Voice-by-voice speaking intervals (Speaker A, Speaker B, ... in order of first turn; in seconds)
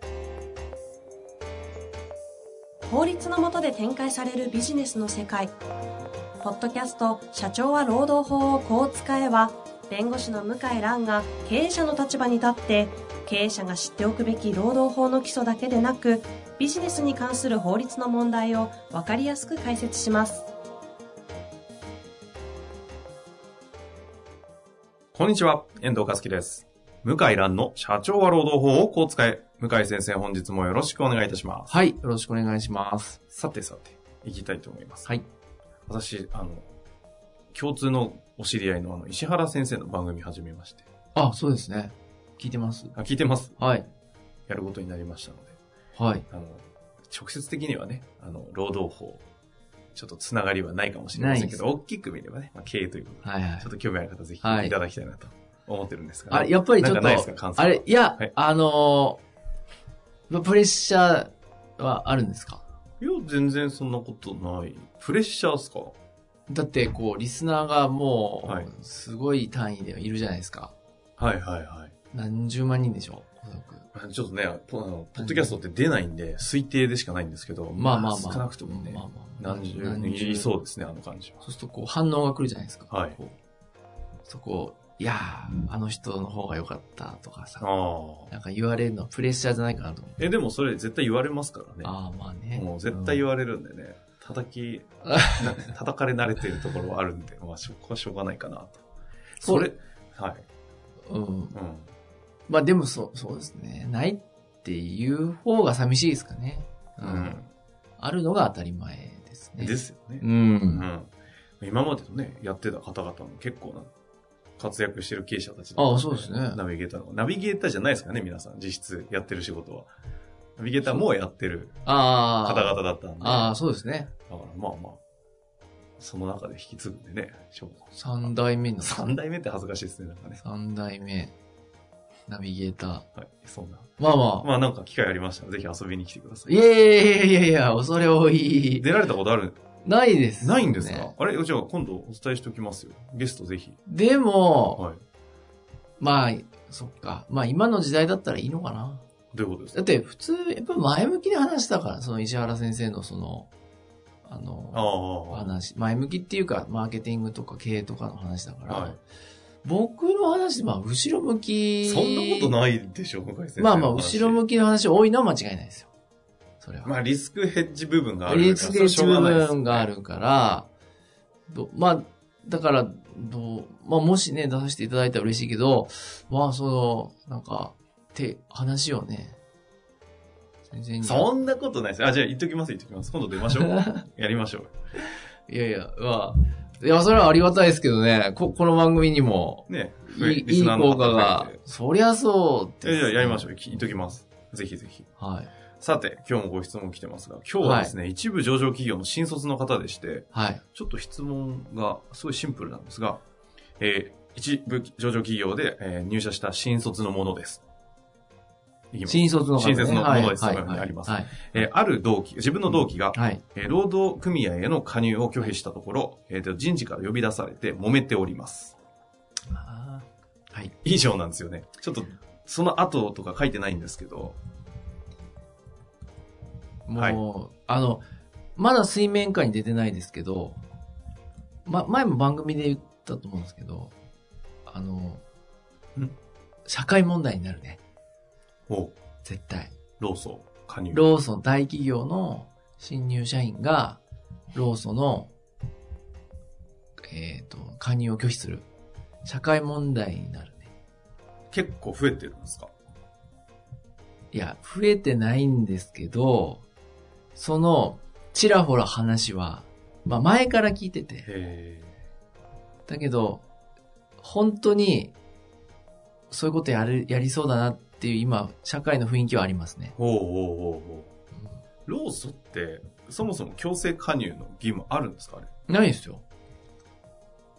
Speaker A: 2.9-5.5, 6.4-20.5
Speaker B: 25.1-31.7, 33.3-35.1, 35.9-36.7, 37.5-40.8, 42.9-43.6, 44.5-45.6, 46.3-49.2, 49.9-58.3, 63.0-66.0, 68.4-68.7, 71.2-71.9, 73.9-81.4, 82.9-83.2, 87.6-88.3, 90.2-91.9, 92.5-98.8, 99.4-100.4, 101.5-101.9, 107.0-107.5, 109.6-113.9, 114.6-119.9, 120.6-121.8, 122.4-123.5, 124.3-125.0, 126.0-130.4, 133.2-136.5, 138.8-139.6, 140.4-143.8, 149.3-149.9, 154.7-155.6, 158.7-159.0, 161.8-164.4, 166.8-169.9, 181.0-184.7, 189.7-191.6, 192.8-195.1, 195.8-203.2, 203.8-207.6, 208.9-218.8, 220.8-224.4, 226.9-227.2, 238.7-238.9, 240.0-241.0, 251.5-252.7, 261.2-261.9, 269.9-271.1, 271.9-275.5
Speaker C: 31.7-33.2, 41.1-42.9, 43.6-43.9, 45.9-46.2, 51.1-51.6, 53.2-53.7, 54.4-54.8, 56.3-59.2, 60.3-62.6, 66.5-70.7, 72.1-73.9, 75.2-75.6, 77.7-80.5, 81.4-83.3, 84.2-87.7, 88.3-90.2, 91.8-93.2, 95.1-95.4, 99.4-99.7, 101.1-101.5, 102.5-107.4, 108.0-110.8, 115.8-116.6, 121.8-124.1, 127.9-129.2, 130.4-131.3, 132.3-133.1, 134.0-134.5, 136.5-138.9, 139.8-141.1, 143.8-144.8, 146.0-149.0, 149.7-153.5, 154.2-159.0, 159.6-162.6, 163.6-165.9, 166.6-166.9, 168.2-170.7, 171.5-179.4, 180.7-181.3, 185.5-193.6, 195.2-195.5, 197.6-197.9, 200.3-200.6, 209.1-211.4, 213.1-213.4, 219.5-220.7, 226.8-228.0, 228.6-230.6, 231.6-233.9, 234.7-235.2, 236.7-237.8, 239.2-239.8, 240.9-244.0, 244.5-245.3, 247.1-248.7, 249.2-250.7, 254.3-256.6, 257.3-261.3, 262.9-263.4, 264.2-265.1, 266.3-269.9, 275.7-276.2